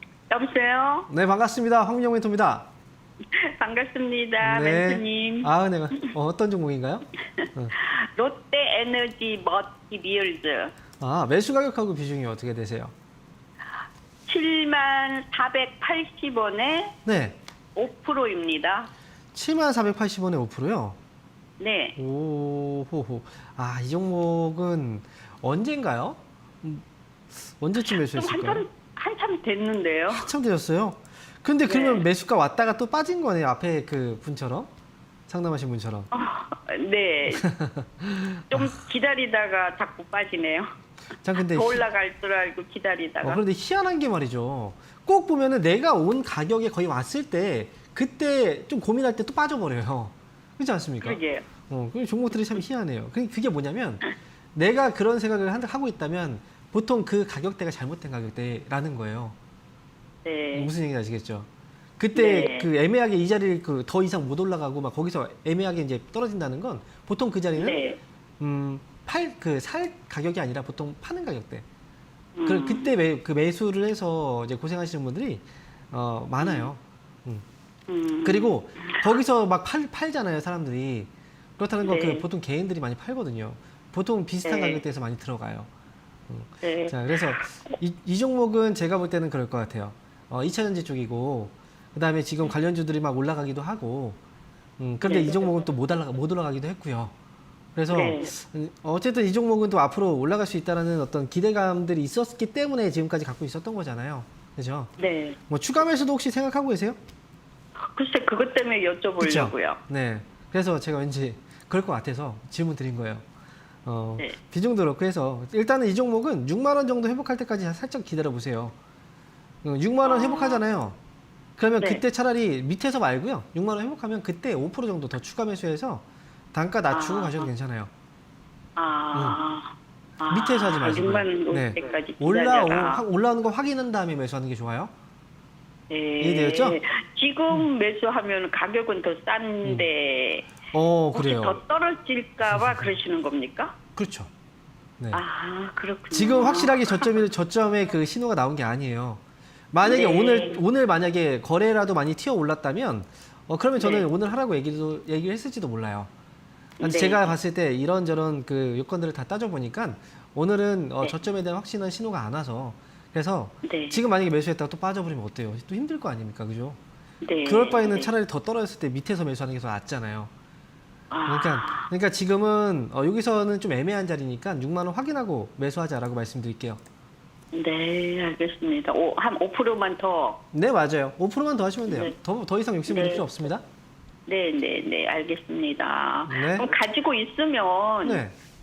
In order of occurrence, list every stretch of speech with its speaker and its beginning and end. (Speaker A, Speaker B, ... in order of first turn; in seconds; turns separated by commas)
Speaker A: 0.3-1.1, Speaker B: 1.1-2.7, Speaker A: 3.3-5.5, Speaker B: 4.4-7.7, Speaker A: 7.4-10.7, Speaker B: 11.0-12.9, Speaker A: 14.3-17.0, Speaker B: 17.0-17.4, Speaker A: 17.8-18.9, Speaker B: 19.3-21.0, Speaker A: 21.6-22.0, Speaker B: 22.0-26.8, Speaker B: 27.4-28.6, Speaker A: 27.8-30.3, Speaker B: 30.1-34.7, Speaker A: 31.7-32.0, Speaker B: 35.3-36.1, Speaker A: 36.1-37.5, Speaker B: 37.4-38.7, Speaker A: 38.5-40.7, Speaker B: 41.2-41.8, Speaker A: 41.4-43.4, Speaker B: 43.2-59.3, Speaker A: 51.0-51.5, Speaker A: 60.2-60.7, Speaker B: 60.5-61.5, Speaker B: 62.0-67.8, Speaker A: 62.1-62.7, Speaker A: 67.5-68.0, Speaker B: 68.4-71.6, Speaker A: 72.4-72.9, Speaker B: 72.5-77.4, Speaker A: 76.4-76.7, Speaker A: 77.9-79.1, Speaker B: 78.2-85.7, Speaker A: 81.8-82.2, Speaker A: 84.4-84.8, Speaker B: 86.3-94.2, Speaker A: 86.6-87.4, Speaker B: 94.8-97.1, Speaker A: 95.0-95.6, Speaker B: 97.8-104.9, Speaker A: 97.9-98.3, Speaker A: 105.0-105.4, Speaker B: 105.5-107.0, Speaker A: 107.9-109.8, Speaker B: 109.2-113.2, Speaker B: 113.8-118.7, Speaker B: 119.6-121.0, Speaker A: 120.0-120.6, Speaker B: 121.6-127.9, Speaker A: 126.9-127.5, Speaker A: 128.8-133.0, Speaker B: 129.1-129.4, Speaker B: 130.3-134.9, Speaker A: 135.9-140.5, Speaker B: 136.2-136.8, Speaker B: 140.7-141.6, Speaker A: 141.1-143.7, Speaker B: 142.5-143.0, Speaker B: 143.9-144.3, Speaker A: 145.1-147.1, Speaker B: 146.1-149.2, Speaker B: 149.7-156.1, Speaker A: 149.8-150.6, Speaker A: 153.8-154.1, Speaker B: 156.8-166.8, Speaker A: 156.8-157.3, Speaker A: 163.6-164.0, Speaker A: 167.2-168.1, Speaker B: 167.4-170.3, Speaker A: 171.1-171.9, Speaker B: 171.2-176.8, Speaker A: 177.5-180.4, Speaker B: 180.5-183.6, Speaker A: 181.9-182.1, Speaker A: 182.9-183.3, Speaker A: 184.3-188.2, Speaker B: 186.2-186.7, Speaker B: 188.0-188.3